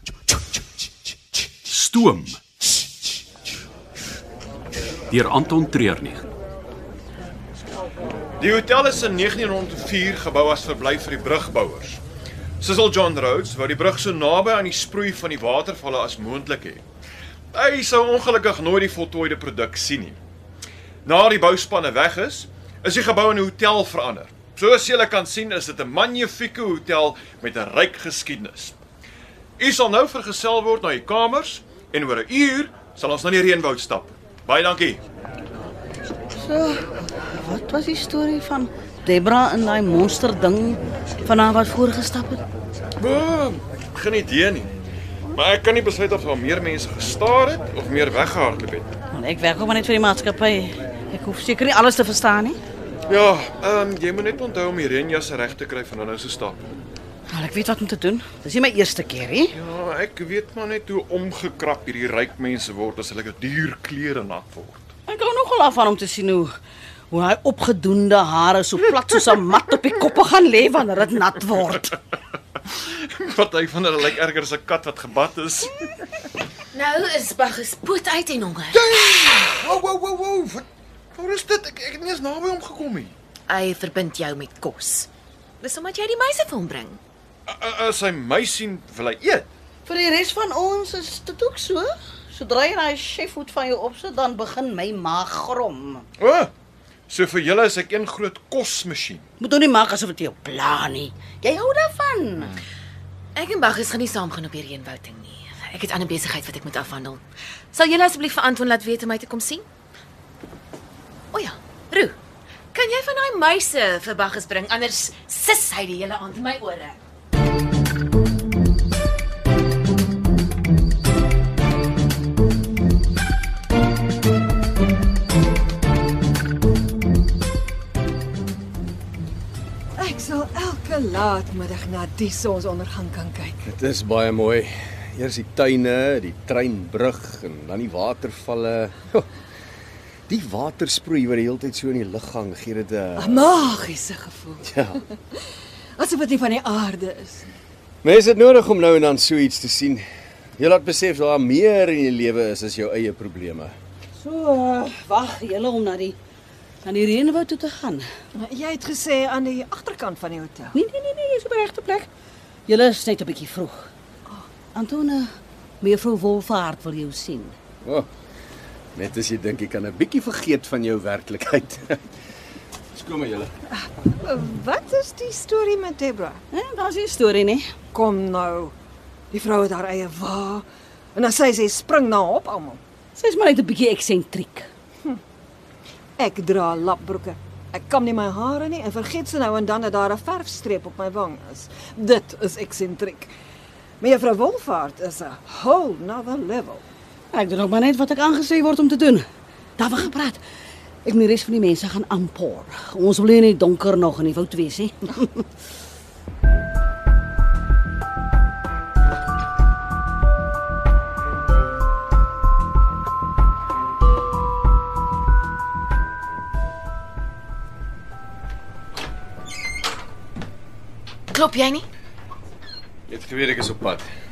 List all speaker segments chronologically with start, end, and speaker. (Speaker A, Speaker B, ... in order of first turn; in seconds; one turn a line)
Speaker A: 1.6-2.4
Speaker A: 5.1-6.3
Speaker B: 8.4-12.0
Speaker B: 12.6-16.9
Speaker B: 17.5-20.2
Speaker B: 21.1-28.8
Speaker B: 29.6-35.0
Speaker C: 36.3-42.4
Speaker B: 43.0-44.7
Speaker B: 45.3-48.9
Speaker C: 49.1-52.6
Speaker B: 53.1-56.6
Speaker C: 57.3-59.5
Speaker B: 59.5-64.8
Speaker C: 65.1-66.5
Speaker C: 67.1-71.9
Speaker B: 72.7-75.9
Speaker D: 76.7-78.8
Speaker B: 78.7-83.1
Speaker D: 83.5-85.1
Speaker D: 85.6-87.0
Speaker B: 87.5-89.5
Speaker C: 89.9-96.0
Speaker B: 96.2-96.5
Speaker B: 97.1-99.2
Speaker C: 99.4-102.5
Speaker D: 103.3-109.7
Speaker D: 111.3-112.2
Speaker D: 112.7-117.0
Speaker E: 130.0-133.6
Speaker F: 133.7-139.3
Speaker F: 140.3-143.5
Speaker E: 143.2-144.7
Speaker F: 144.7-145.0
Speaker E: 146.0-147.5
Speaker F: 148.0-150.1
Speaker F: 150.6-153.7
Speaker C: 154.2-156.2
Speaker C: 156.8-158.1
Speaker E: 158.4-160.8
Speaker C: 160.7-162.1
Speaker C: 162.7-163.9
Speaker C: 164.7-165.3
Speaker C: 165.8-167.6
Speaker F: 168.9-172.0
Speaker F: 172.9-173.5
Speaker E: 173.7-176.4
Speaker C: 176.5-177.7
Speaker E: 177.9-178.7
Speaker E: 179.3-182.8
Speaker C: 183.2-184.7
Speaker E: 186.2-193.3
Speaker E: 194.0-196.8
Speaker C: 197.3-199.3
Speaker C: 199.8-200.4
Speaker C: 201.1-205.5
Speaker D: 221.3-221.9
Speaker F: 223.1-224.1